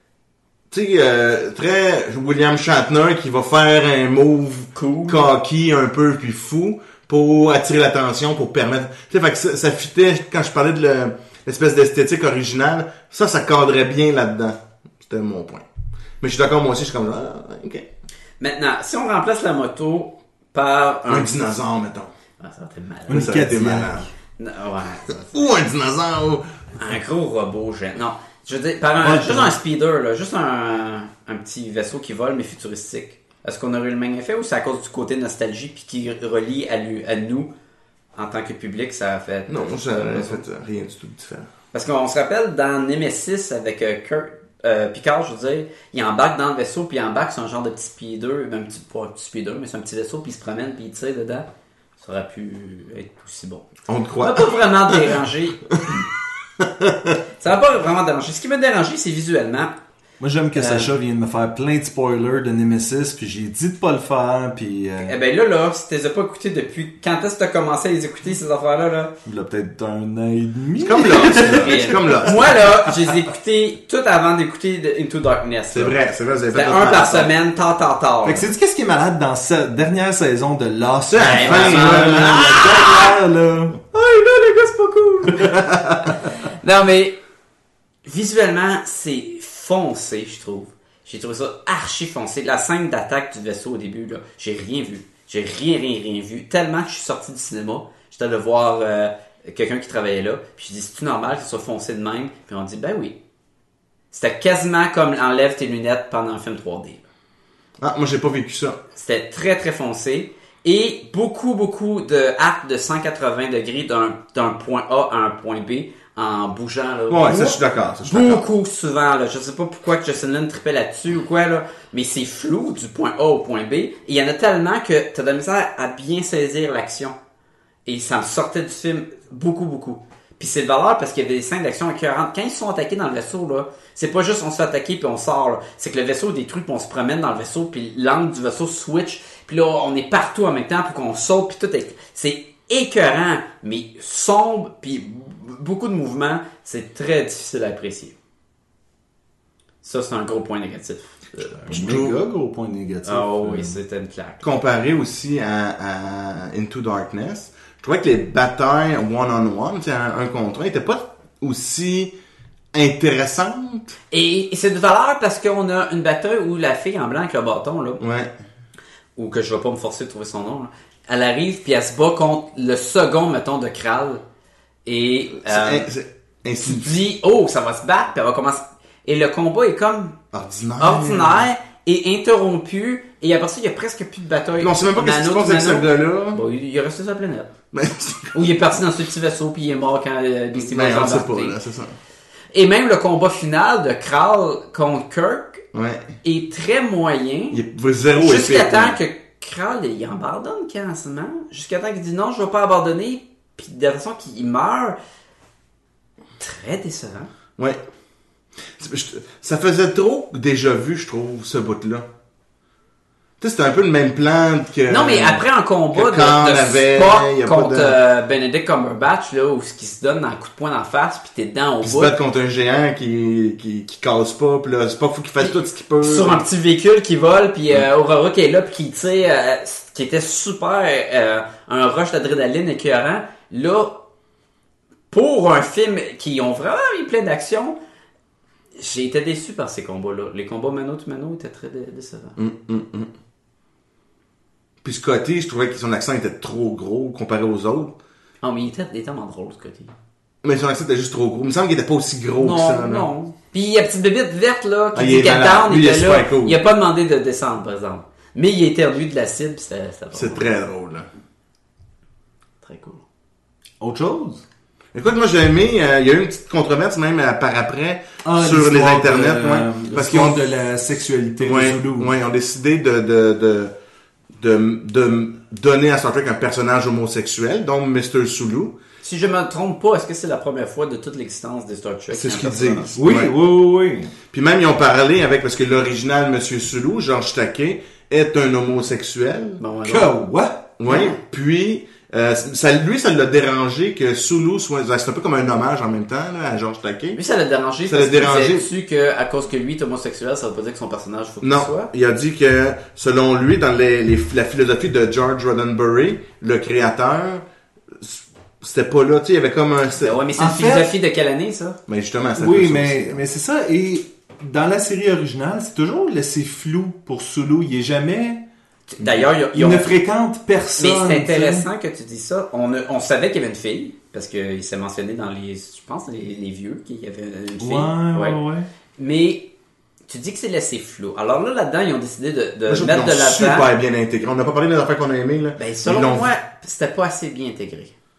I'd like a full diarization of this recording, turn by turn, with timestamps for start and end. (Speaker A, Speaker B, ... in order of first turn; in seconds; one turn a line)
Speaker A: 0.7-15.7
Speaker B: 4.8-5.3
Speaker A: 16.2-17.9
Speaker B: 18.4-21.3
Speaker A: 21.1-22.1
Speaker B: 22.4-23.4
Speaker C: 23.1-24.0
Speaker A: 23.1-24.1
Speaker B: 24.4-25.4
Speaker A: 25.3-26.4
Speaker B: 26.8-37.5
Speaker C: 29.0-29.6
Speaker B: 38.1-40.4
Speaker A: 39.5-41.5
Speaker B: 41.7-51.5
Speaker B: 52.0-53.7
Speaker A: 53.9-55.1
Speaker B: 54.2-56.0
Speaker A: 56.6-57.1
Speaker B: 57.4-59.7
Speaker C: 60.2-65.2
Speaker B: 60.6-60.9
Speaker B: 65.0-69.1
Speaker C: 69.2-72.5
Speaker A: 70.8-72.6
Speaker B: 71.2-76.0
Speaker A: 75.7-77.3
Speaker B: 76.5-78.5
Speaker C: 78.2-83.8
Speaker A: 81.1-82.5
Speaker B: 81.2-83.2
Speaker B: 83.9-85.6
Speaker C: 85.3-86.1
Speaker B: 86.1-87.2
Speaker B: 88.0-103.2
Speaker B: 104.1-107.0
Speaker A: 107.8-108.8
Speaker B: 109.0-127.2
Speaker A: 117.1-118.5
Speaker B: 127.9-148.1
Speaker B: 149.8-151.8
Speaker C: 151.6-153.8
Speaker A: 151.7-152.2
Speaker B: 153.1-154.4
Speaker A: 154.4-162.1
Speaker A: 162.7-163.9
Speaker B: 164.1-168.0
Speaker A: 168.0-168.3
Speaker B: 169.2-174.2
Speaker B: 174.8-175.9
Speaker A: 175.4-176.9
Speaker B: 176.6-180.2
Speaker A: 180.3-181.5
Speaker B: 180.8-187.5
Speaker A: 184.6-186.4
Speaker A: 187.7-188.3
Speaker B: 188.3-191.6
Speaker A: 190.6-192.0
Speaker B: 192.5-195.6
Speaker A: 195.7-196.2
Speaker B: 196.2-197.6
Speaker A: 197.5-199.0
Speaker B: 198.2-205.0
Speaker B: 206.4-207.3
Speaker A: 208.8-212.1
Speaker A: 213.4-218.0
Speaker B: 214.9-222.1
Speaker A: 221.8-226.4
Speaker B: 225.4-234.0
Speaker B: 235.1-237.8
Speaker B: 238.8-242.4
Speaker A: 242.4-243.1
Speaker A: 244.8-247.9
Speaker B: 248.4-249.9
Speaker A: 250.4-253.1
Speaker B: 252.4-260.5
Speaker A: 254.9-256.6
Speaker A: 260.1-261.1
Speaker B: 262.6-263.0
Speaker C: 263.8-264.4
Speaker A: 264.9-270.4
Speaker C: 268.2-272.1
Speaker A: 271.4-273.7
Speaker A: 274.4-278.8
Speaker B: 279.0-282.9
Speaker A: 282.1-283.3
Speaker C: 283.0-284.1
Speaker A: 284.3-289.6
Speaker B: 289.6-290.1
Speaker C: 289.8-290.6
Speaker A: 290.8-297.2
Speaker B: 290.9-291.2
Speaker B: 297.2-301.9
Speaker A: 297.9-298.7
Speaker A: 301.4-307.4
Speaker A: 308.0-310.2
Speaker B: 310.0-311.8
Speaker C: 310.4-310.9
Speaker A: 311.9-313.2
Speaker C: 312.4-318.4
Speaker B: 318.9-319.9
Speaker C: 319.0-321.7
Speaker B: 320.8-328.4
Speaker C: 327.6-328.7
Speaker B: 329.0-329.5
Speaker B: 330.1-333.7
Speaker A: 332.7-336.3
Speaker B: 335.6-337.9